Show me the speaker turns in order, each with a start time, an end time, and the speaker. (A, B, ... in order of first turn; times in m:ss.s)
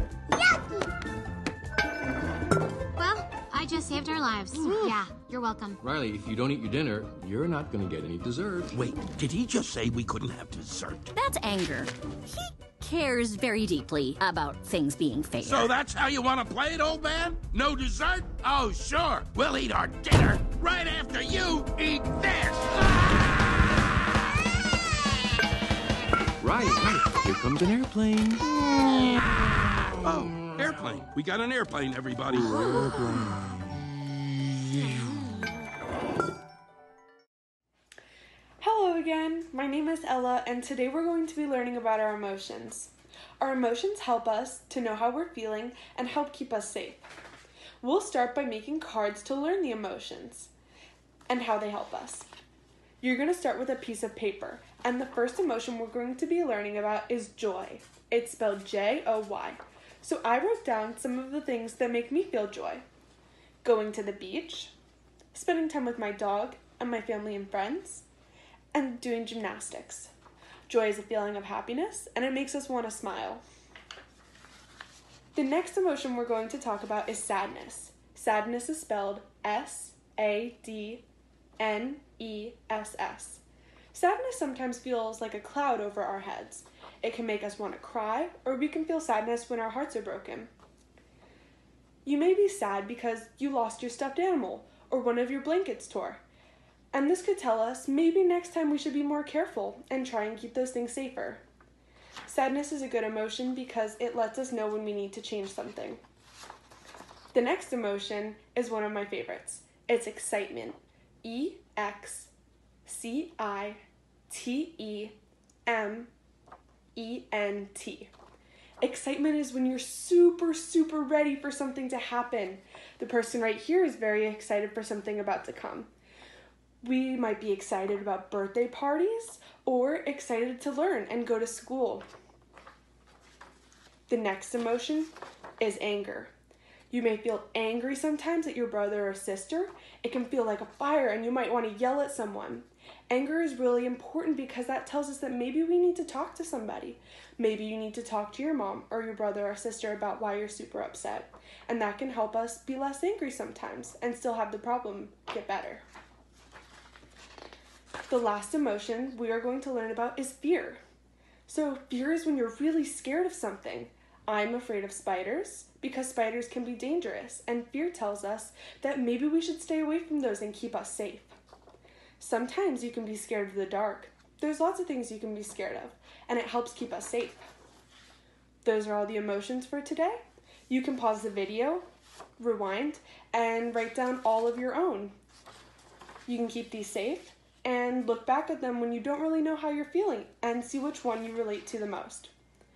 0:00.3-0:00.8 A
0:03.0-0:05.8 A
0:04.5-0:05.0 B
0:05.8-0:08.8 C
0:08.7-0:11.1 D
0:11.1-0:15.7 B
0:15.4-0:22.8 D
0:26.4-0:28.4 C
0:30.0-0:32.9 D
0:32.4-0:33.2 A
0:32.6-0:33.1 B
0:34.8-0:35.6 A
0:38.6-0:47.0 E
0:47.8-0:50.5 E
0:51.3-0:52.3 E
0:53.0-1:02.8 E
1:03.6-1:04.7 E
1:05.3-1:08.1 E
1:08.7-1:10.1 E
1:10.7-1:13.4 E
1:15.3-1:21.0 E
1:21.6-1:30.5 E
1:32.0-1:36.2 E
1:36.9-1:41.4 E
1:42.2-1:46.0 E
1:47.3-1:52.3 E
1:52.8-1:56.1 E
1:57.0-1:58.1 E
1:58.8-2:05.9 E
2:06.8-2:12.0 E
2:14.1-2:16.3 E
2:16.9-2:35.8 E
2:38.1-2:40.8 E
2:41.5-2:51.4 E
2:52.2-2:57.4 E
2:58.6-3:01.8 E
3:02.4-3:05.1 E
3:06.3-3:12.3 E